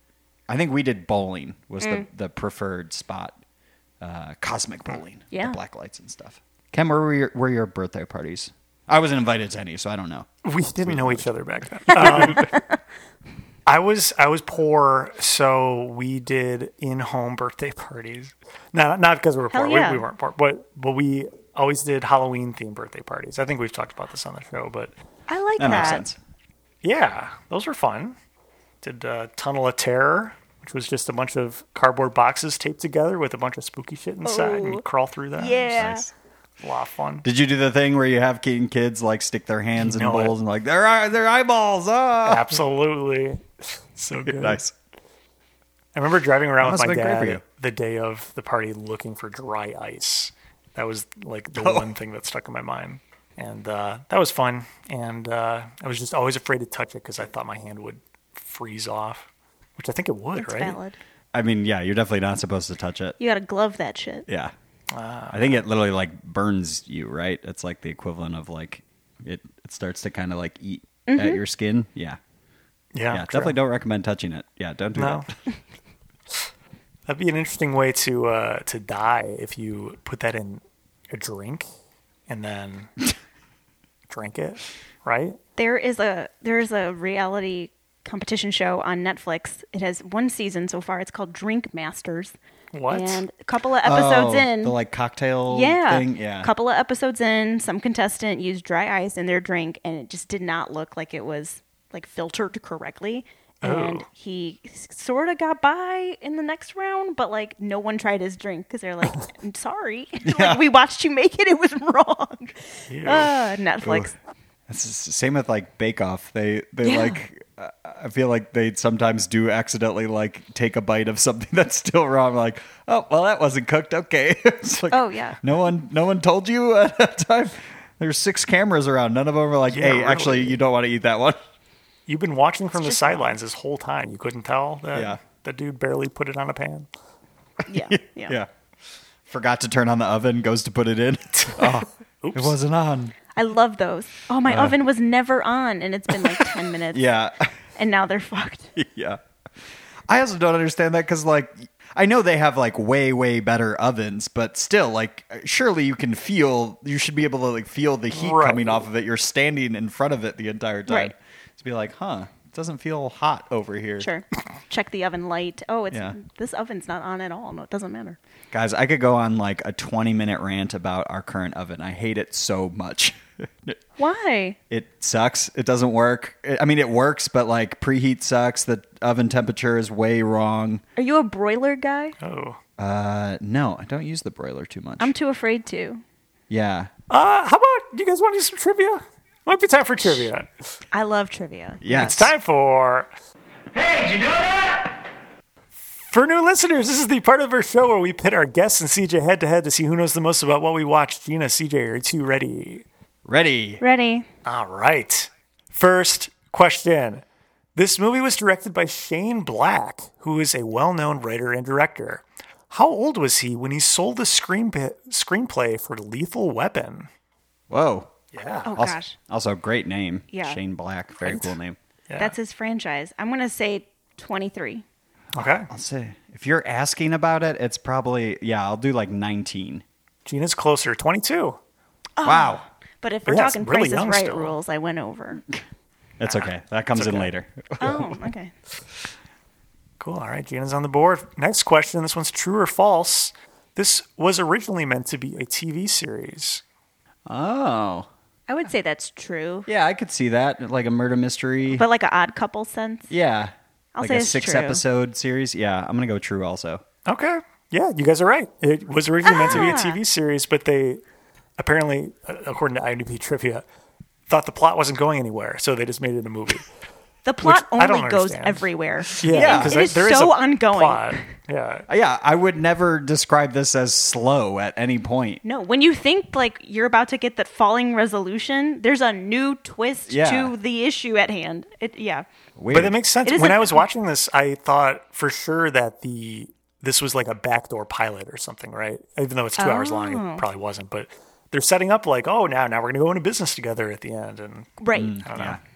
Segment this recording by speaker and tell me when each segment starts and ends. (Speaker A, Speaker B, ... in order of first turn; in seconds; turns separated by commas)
Speaker A: 0.5-3.4, Speaker B: 1.8-2.0, Speaker A: 4.0-10.3, Speaker B: 5.3-5.6, Speaker C: 10.4-12.4, Speaker A: 10.8-11.3, Speaker A: 11.8-12.5, Speaker B: 12.1-12.4, Speaker C: 13.7-24.9, Speaker B: 19.5-20.0, Speaker B: 25.3-26.0, Speaker A: 25.6-26.2, Speaker C: 26.8-28.1, Speaker C: 28.8-35.7, Speaker B: 34.2-34.8, Speaker B: 35.4-36.1, Speaker A: 35.8-36.1, Speaker C: 36.6-37.2, Speaker A: 37.2-42.6, Speaker C: 39.7-40.3, Speaker C: 42.2-44.6, Speaker A: 44.2-44.7, Speaker C: 45.9-60.8, Speaker A: 46.6-47.4, Speaker A: 51.5-51.9, Speaker B: 60.4-61.0, Speaker A: 61.3-63.2, Speaker B: 63.2-64.2, Speaker A: 64.3-64.5, Speaker C: 64.9-65.6, Speaker A: 65.3-72.2, Speaker B: 71.1-71.4, Speaker C: 72.9-73.6, Speaker A: 73.1-75.3, Speaker C: 74.9-75.3, Speaker C: 77.1-81.7, Speaker C: 82.3-82.9, Speaker C: 84.1-85.4, Speaker B: 85.6-92.3, Speaker C: 92.7-93.2, Speaker B: 92.9-94.8, Speaker A: 93.8-96.5, Speaker B: 95.5-114.1, Speaker C: 103.6-104.0, Speaker A: 110.2-110.6, Speaker C: 112.9-113.3, Speaker A: 113.8-114.1, Speaker A: 114.7-131.4, Speaker B: 116.8-117.2, Speaker B: 124.9-125.4, Speaker C: 129.7-130.6, Speaker C: 132.1-136.9, Speaker B: 132.8-133.3, Speaker A: 134.9-135.2, Speaker A: 137.7-138.5, Speaker B: 137.7-138.3, Speaker A: 139.3-143.1, Speaker C: 142.2-142.6, Speaker B: 143.3-147.1, Speaker A: 144.5-144.7, Speaker A: 146.3-147.5, Speaker B: 147.8-148.7, Speaker A: 148.8-149.2, Speaker A: 150.1-164.1, Speaker C: 158.1-158.8, Speaker B: 160.9-161.1, Speaker B: 164.0-168.2, Speaker A: 168.5-173.8, Speaker B: 174.0-174.6, Speaker A: 174.7-180.8, Speaker B: 181.0-182.2, Speaker C: 182.2-182.6, Speaker A: 182.8-185.1, Speaker B: 185.0-186.0, Speaker A: 186.5-186.9, Speaker C: 187.1-190.5, Speaker B: 190.9-191.8, Speaker A: 191.8-192.3, Speaker C: 191.9-193.1, Speaker C: 195.9-202.8, Speaker A: 203.2-203.8, Speaker B: 203.8-204.3, Speaker C: 204.4-207.2, Speaker C: 207.7-217.1, Speaker A: 217.7-218.1, Speaker C: 218.3-218.7, Speaker B: 218.7-219.2, Speaker A: 218.7-221.8, Speaker B: 220.3-220.6, Speaker B: 221.2-221.5, Speaker C: 222.1-222.3, Speaker B: 222.2-224.8, Speaker C: 225.3-225.7, Speaker A: 225.7-229.8, Speaker C: 230.2-231.6, Speaker B: 232.2-235.4, Speaker A: 232.2-232.6, Speaker C: 233.2-234.5, Speaker A: 236.2-238.2, Speaker C: 236.9-237.3, Speaker B: 237.8-238.5, Speaker C: 240.0-246.6, Speaker A: 247.3-248.1, Speaker B: 248.5-249.7, Speaker A: 249.7-251.8, Speaker B: 251.7-253.1, Speaker A: 253.1-256.8, Speaker B: 253.9-254.8, Speaker C: 257.1-261.0, Speaker B: 259.2-260.0, Speaker C: 261.6-263.6, Speaker C: 264.3-266.7, Speaker B: 267.2-271.3, Speaker C: 267.4-268.6, Speaker C: 269.2-271.9, Speaker A: 269.3-269.8, Speaker A: 271.9-275.4, Speaker B: 275.4-282.2, Speaker A: 280.1-280.5, Speaker A: 282.6-283.0, Speaker C: 282.7-294.7, Speaker B: 283.2-283.8, Speaker B: 289.6-290.4, Speaker B: 294.8-295.2, Speaker A: 294.9-295.6, Speaker C: 295.2-295.6